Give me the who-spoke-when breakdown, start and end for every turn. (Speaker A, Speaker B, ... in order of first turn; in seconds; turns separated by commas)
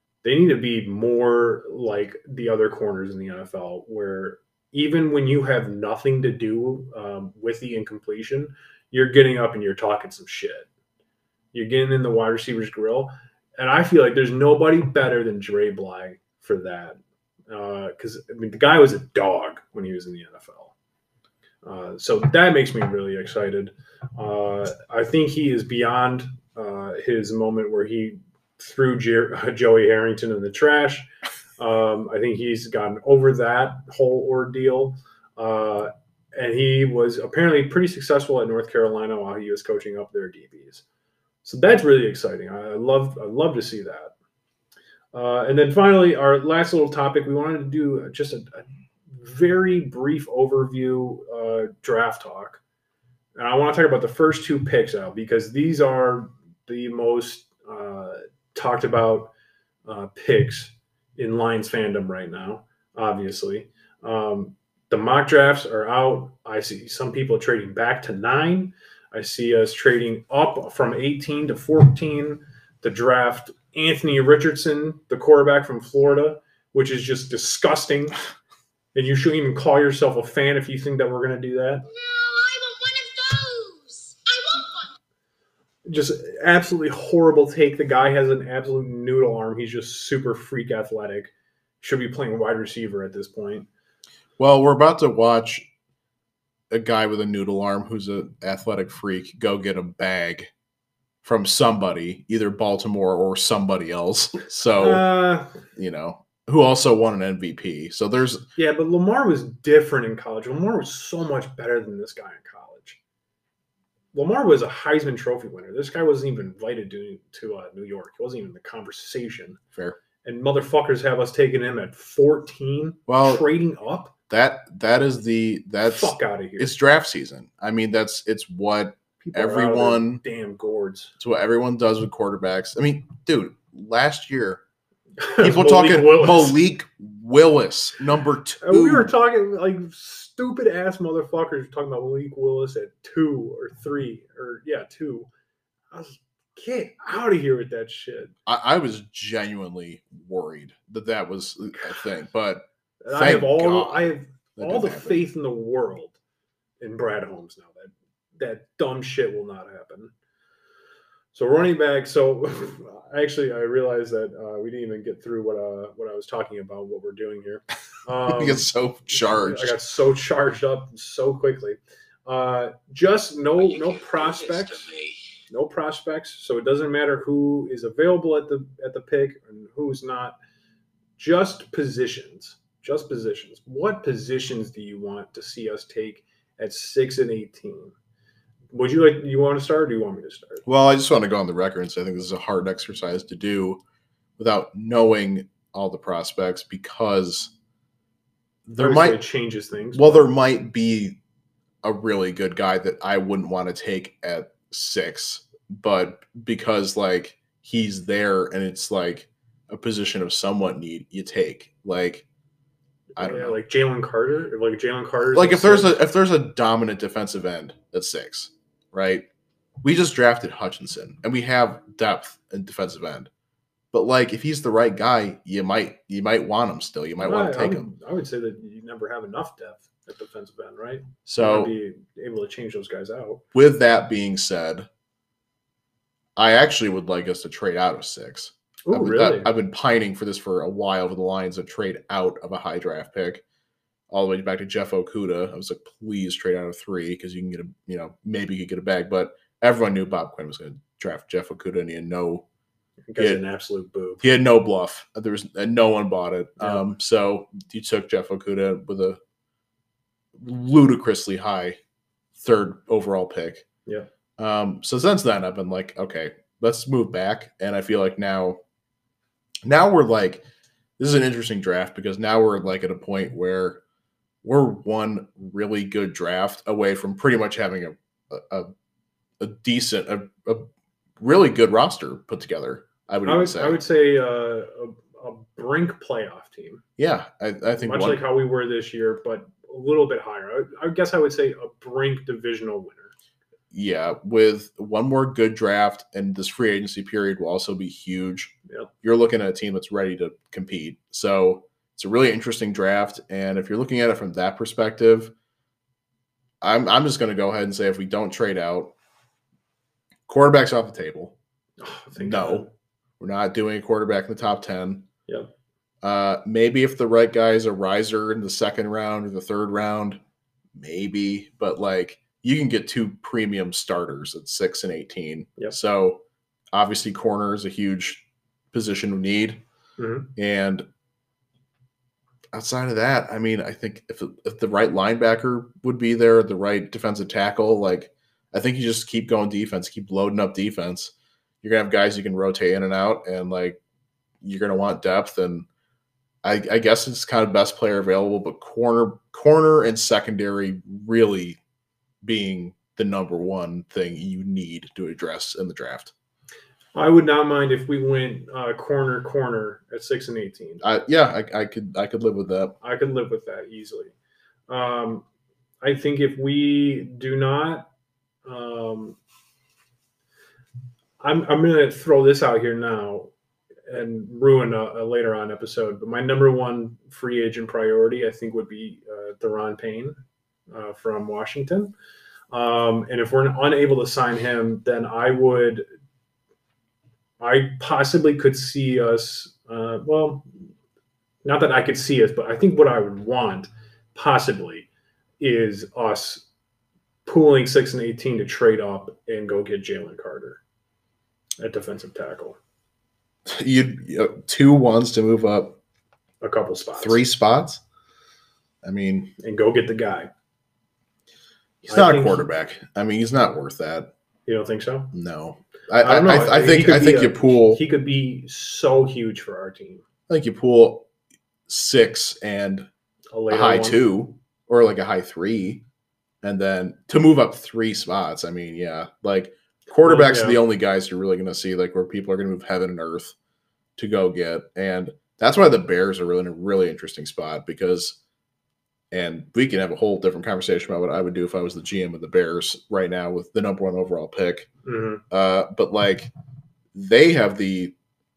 Speaker A: 0.2-10.7, Speaker A: 11.5-20.7, Speaker A: 21.6-31.1, Speaker A: 31.6-40.8, Speaker A: 41.4-44.1, Speaker A: 45.1-52.6, Speaker A: 53.4-59.3, Speaker A: 59.9-78.2, Speaker A: 78.9-81.8, Speaker B: 81.9-84.8, Speaker A: 85.8-93.7, Speaker C: 94.4-95.7, Speaker C: 96.7-100.5, Speaker C: 101.2-105.0, Speaker A: 104.8-105.6, Speaker C: 105.8-108.4, Speaker A: 108.5-113.0, Speaker A: 114.1-119.6, Speaker A: 120.2-124.1, Speaker C: 123.1-123.4, Speaker C: 124.3-130.2, Speaker A: 125.8-126.7, Speaker A: 129.2-131.1, Speaker C: 131.2-134.6, Speaker A: 135.2-136.6, Speaker C: 135.4-139.1, Speaker A: 138.6-145.3, Speaker A: 145.9-148.3, Speaker C: 148.4-155.2, Speaker A: 153.0-156.2, Speaker A: 156.8-160.1, Speaker A: 161.3-174.9, Speaker C: 168.3-169.7, Speaker B: 173.6-175.2, Speaker A: 175.5-180.4, Speaker A: 181.2-187.9, Speaker A: 188.7-190.6, Speaker C: 190.7-193.8, Speaker C: 194.4-197.5, Speaker C: 198.7-199.2, Speaker A: 198.8-200.3, Speaker C: 199.9-201.2, Speaker C: 201.8-212.2, Speaker A: 213.2-216.0, Speaker C: 213.2-213.6, Speaker C: 215.3-219.3, Speaker C: 219.8-223.3, Speaker C: 223.9-227.9, Speaker A: 227.2-233.4, Speaker C: 231.3-231.7, Speaker C: 233.5-234.9, Speaker C: 236.3-243.4, Speaker A: 238.9-239.5, Speaker C: 244.1-252.4, Speaker A: 253.1-254.3, Speaker C: 254.2-259.2, Speaker C: 260.4-261.8, Speaker C: 262.4-263.6, Speaker C: 264.4-268.6, Speaker C: 269.6-270.4, Speaker C: 271.0-273.8, Speaker C: 274.4-278.7, Speaker C: 279.4-280.7, Speaker C: 281.2-283.8, Speaker A: 283.2-286.8, Speaker C: 287.0-288.2, Speaker A: 287.8-293.1, Speaker C: 293.7-305.3, Speaker C: 306.6-308.9, Speaker C: 310.3-311.4, Speaker A: 311.8-312.7, Speaker C: 312.1-312.7, Speaker C: 313.2-315.1, Speaker C: 316.0-320.2, Speaker C: 320.7-326.2, Speaker C: 326.7-329.6, Speaker A: 330.0-330.3, Speaker C: 330.4-330.8, Speaker C: 332.5-343.8, Speaker C: 344.4-345.7, Speaker C: 346.4-351.6, Speaker C: 352.2-356.1, Speaker A: 356.9-360.8, Speaker C: 360.8-362.7, Speaker A: 362.8-364.1, Speaker A: 364.7-365.2, Speaker A: 365.8-367.9, Speaker A: 368.4-369.2, Speaker A: 371.2-373.3, Speaker A: 373.9-380.2, Speaker A: 380.7-381.9, Speaker A: 382.5-385.8, Speaker A: 387.4-390.5, Speaker A: 391.4-394.9, Speaker A: 395.4-396.4, Speaker A: 397.2-400.6, Speaker A: 401.6-402.6, Speaker C: 403.5-405.8, Speaker A: 406.4-407.2, Speaker C: 407.0-407.8, Speaker C: 408.8-409.3, Speaker A: 409.4-410.3, Speaker C: 411.8-414.1, Speaker A: 411.9-412.4, Speaker A: 414.4-415.1, Speaker C: 415.1-417.8, Speaker A: 416.0-420.0, Speaker C: 420.3-421.1, Speaker C: 421.7-422.9, Speaker A: 423.3-424.0, Speaker C: 423.5-425.8, Speaker C: 426.4-433.3, Speaker A: 430.0-430.6, Speaker C: 434.0-438.2, Speaker C: 439.1-444.7, Speaker A: 444.9-445.2, Speaker C: 445.3-446.3, Speaker C: 446.9-447.9